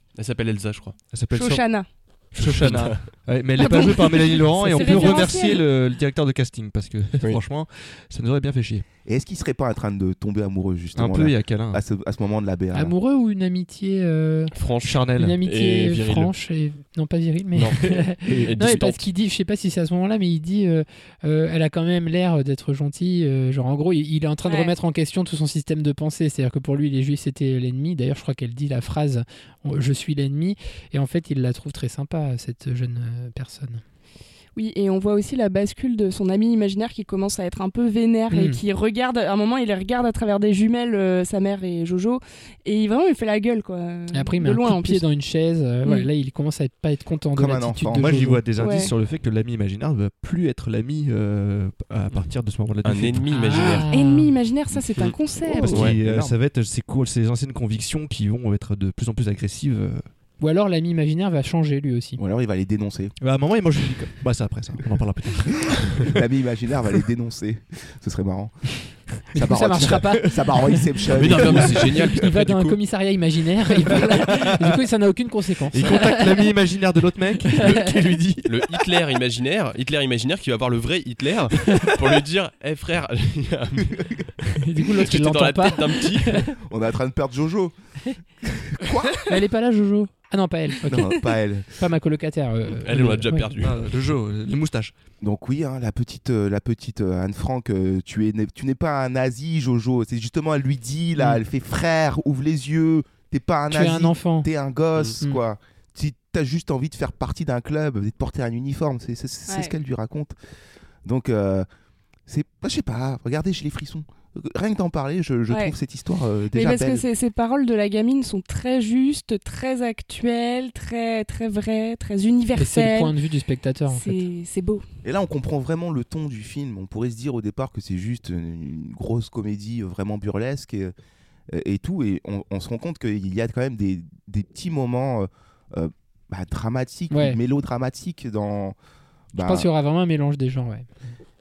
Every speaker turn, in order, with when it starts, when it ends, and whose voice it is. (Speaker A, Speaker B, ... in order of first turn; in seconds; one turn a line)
Speaker A: 0.1-1.0
Speaker B: 1.1-8.8
Speaker C: 1.3-1.9
Speaker A: 2.4-3.1
Speaker C: 3.6-5.6
Speaker D: 4.7-5.2
Speaker E: 9.1-12.9
Speaker B: 10.9-11.8
Speaker D: 12.7-14.6
Speaker A: 14.5-16.3
Speaker B: 14.8-15.4
Speaker D: 15.1-33.8
Speaker A: 17.5-19.0
Speaker C: 24.4-24.7
Speaker C: 34.5-45.0
Speaker D: 38.3-38.6
Speaker D: 44.1-48.5
Speaker C: 45.8-46.1
Speaker E: 47.3-48.2
Speaker B: 48.0-53.8
Speaker C: 48.6-48.9
Speaker A: 52.8-53.9
Speaker D: 53.3-54.3
Speaker C: 53.9-55.8
Speaker E: 55.4-56.3
Speaker B: 55.6-60.0
Speaker A: 55.7-56.0
Speaker D: 60.4-62.2
Speaker E: 62.2-63.1
Speaker B: 63.2-66.1
Speaker E: 66.0-68.7
Speaker D: 69.3-70.8
Speaker E: 69.3-71.9
Speaker B: 71.1-72.0
Speaker A: 71.1-72.8
Speaker D: 71.8-76.5
Speaker B: 73.9-74.8
Speaker B: 75.7-78.6
Speaker A: 77.6-77.9
Speaker A: 78.4-84.0
Speaker D: 84.6-86.5
Speaker A: 85.0-86.5
Speaker E: 86.7-87.7
Speaker E: 88.4-89.1
Speaker D: 89.3-93.5
Speaker E: 90.9-91.7
Speaker A: 92.8-93.7
Speaker B: 93.6-94.9
Speaker E: 95.2-110.3
Speaker D: 103.7-104.5
Speaker C: 109.5-109.7
Speaker E: 111.0-111.7
Speaker E: 112.3-117.0
Speaker C: 115.5-115.8
Speaker C: 116.5-123.2
Speaker D: 122.5-124.2
Speaker C: 123.9-124.8
Speaker E: 125.0-130.9
Speaker E: 131.5-138.7
Speaker D: 137.1-137.4
Speaker E: 139.3-139.7
Speaker D: 139.4-140.9